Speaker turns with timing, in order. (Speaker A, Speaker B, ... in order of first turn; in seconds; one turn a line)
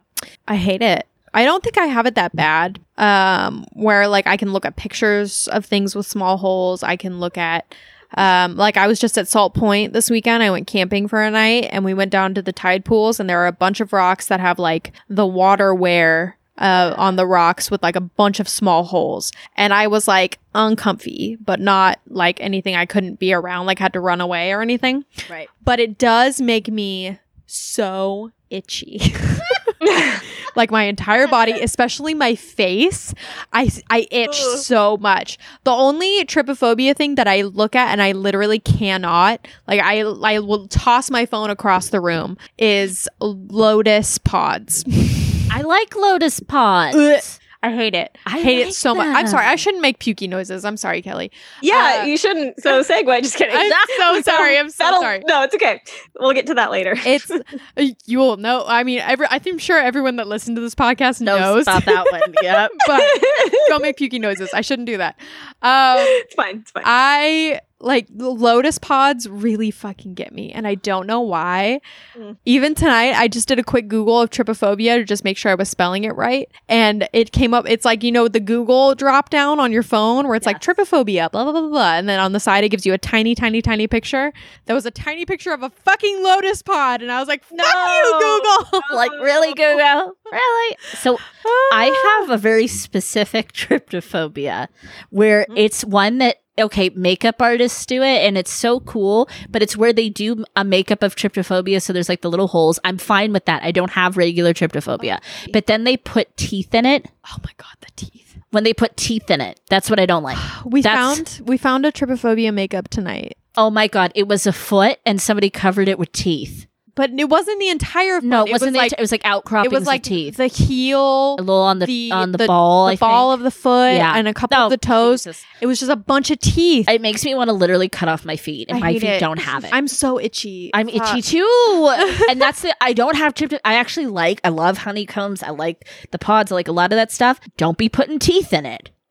Speaker A: 0.5-25.1
Speaker A: 25.6-29.7
Speaker B: 29.8-30.2
Speaker A: 30.4-45.5
Speaker B: 34.3-34.6
Speaker C: 45.5-47.4
Speaker A: 46.9-52.1
Speaker C: 48.2-49.5
Speaker B: 51.6-57.4
Speaker A: 53.5-55.2
Speaker A: 57.0-62.1
Speaker C: 61.2-62.8
Speaker A: 62.8-66.2
Speaker B: 62.9-63.8
Speaker B: 66.0-66.9
Speaker A: 66.8-71.8
Speaker A: 72.4-88.9
Speaker B: 87.5-89.8
Speaker C: 88.9-107.1
Speaker A: 91.4-92.3
Speaker A: 105.0-105.6
Speaker A: 107.2-108.4
Speaker C: 108.5-111.2
Speaker A: 110.3-113.4
Speaker C: 113.5-116.7
Speaker A: 116.9-119.0
Speaker C: 118.2-120.3
Speaker A: 119.6-126.9
Speaker C: 121.4-123.3
Speaker C: 123.9-125.4
Speaker C: 126.9-129.8
Speaker A: 128.7-131.2
Speaker C: 130.7-138.9
Speaker A: 132.0-132.4